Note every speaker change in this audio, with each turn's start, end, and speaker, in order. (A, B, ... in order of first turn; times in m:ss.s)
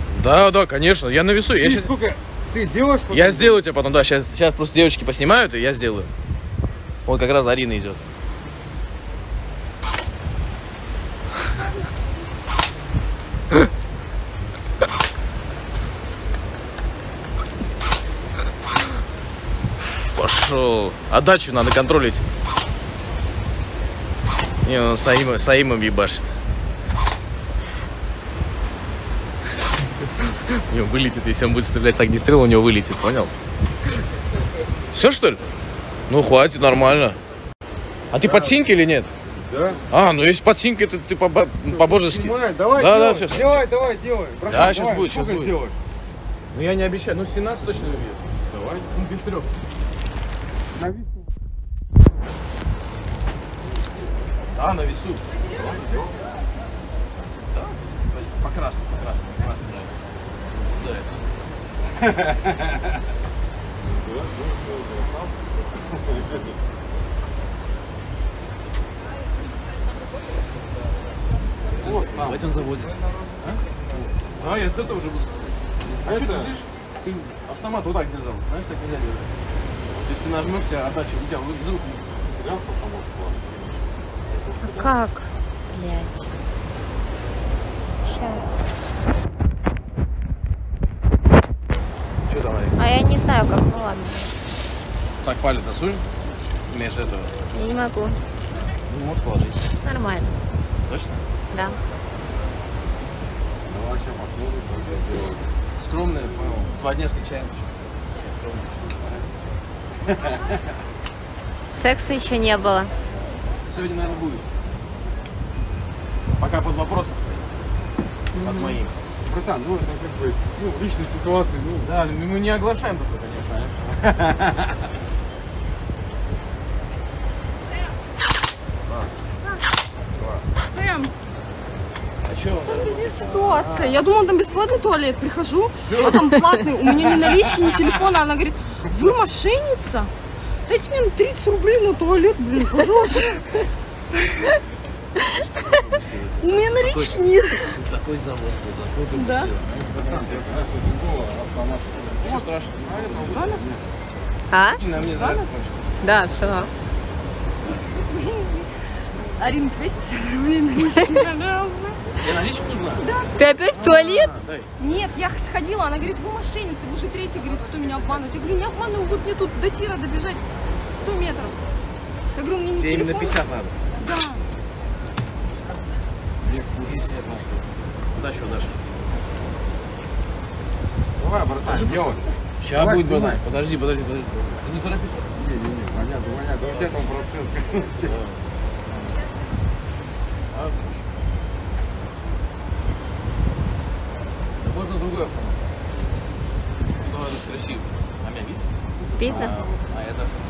0:00.1-0:01.9 A
0:01.6-0:03.6 B
0:03.1-0:06.1 A
0:07.1-0:08.0 A
0:19.8-0:22.2 A
0:24.6-0:26.3 A
0:30.0-0:33.3 A
0:34.9-0:35.4 A
0:36.1-0:37.2 A
0:38.1-0:39.1 A
0:38.2-0:38.6 B
0:39.4-0:39.8 B
0:39.9-0:43.5 A
0:41.7-0:45.8 B
0:44.5-0:45.6 A
0:46.5-0:48.2 A
0:48.5-0:48.9 B
0:48.9-0:49.5 A
0:50.7-0:51.2 B
0:54.5-0:55.2 A
0:55.5-0:56.2 B
0:57.4-1:00.0 A
1:00.6-1:01.1 A
1:02.0-1:02.9 B
1:03.8-1:06.5 B
1:11.7-1:13.0 A
1:11.8-1:12.5 B
1:14.4-1:19.3 A
1:15.8-1:16.5 B
1:19.9-1:22.1 A
1:22.2-1:23.6 B
1:24.5-1:24.9 B
1:24.6-1:26.3 C
1:28.0-1:28.4 C
1:32.3-1:32.8 A
1:32.8-1:34.3 C
1:35.2-1:36.0 A
1:36.7-1:37.3 A
1:37.5-1:38.2 C
1:38.9-1:39.7 A
1:39.8-1:40.4 C
1:40.9-1:41.2 A
1:41.5-1:41.8 C
1:43.7-1:45.5 B
1:45.8-1:48.9 A
1:49.0-1:49.3 B
1:50.1-1:50.6 B
1:51.7-1:52.9 C
1:53.6-1:54.4 A
1:56.4-1:57.5 A
1:58.3-1:58.8 C
1:58.4-1:58.9 A
1:59.2-2:01.9 B
2:01.8-2:03.8 A
2:03.9-2:04.7 B
2:10.6-2:11.1 D
2:12.2-2:13.9 A
2:12.7-2:20.1 D
2:13.5-2:13.8 B
2:15.8-2:16.2 A
2:16.9-2:17.9 B
2:20.7-2:24.6 D
2:25.2-2:30.4 A
2:26.4-2:27.8 D
2:29.1-2:29.5 D
2:30.0-2:33.9 B
2:32.2-2:33.6 A
2:33.2-2:33.6 D
2:34.5-2:34.8 C
2:34.7-2:36.5 A
2:35.0-2:35.5 D
2:36.0-2:36.7 C
2:37.8-2:42.3 D
2:42.2-2:43.1 A
2:43.0-2:43.4 D
2:43.4-2:44.3 C
2:43.6-2:44.7 A
2:44.8-2:51.6 D
2:52.4-2:53.4 D
2:52.8-2:53.8 A
2:54.0-2:54.5 D
2:56.4-2:58.8 A
2:56.4-2:56.9 B
3:01.2-3:03.4 B
3:01.7-3:05.3 A
3:05.4-3:08.2 B
3:06.7-3:07.1 A
3:08.0-3:08.4 A
3:10.5-3:11.1 A
3:14.6-3:15.6 A
3:17.0-3:18.6 A
3:19.2-3:19.5 C
3:19.2-3:20.3 A
3:19.2-3:19.6 B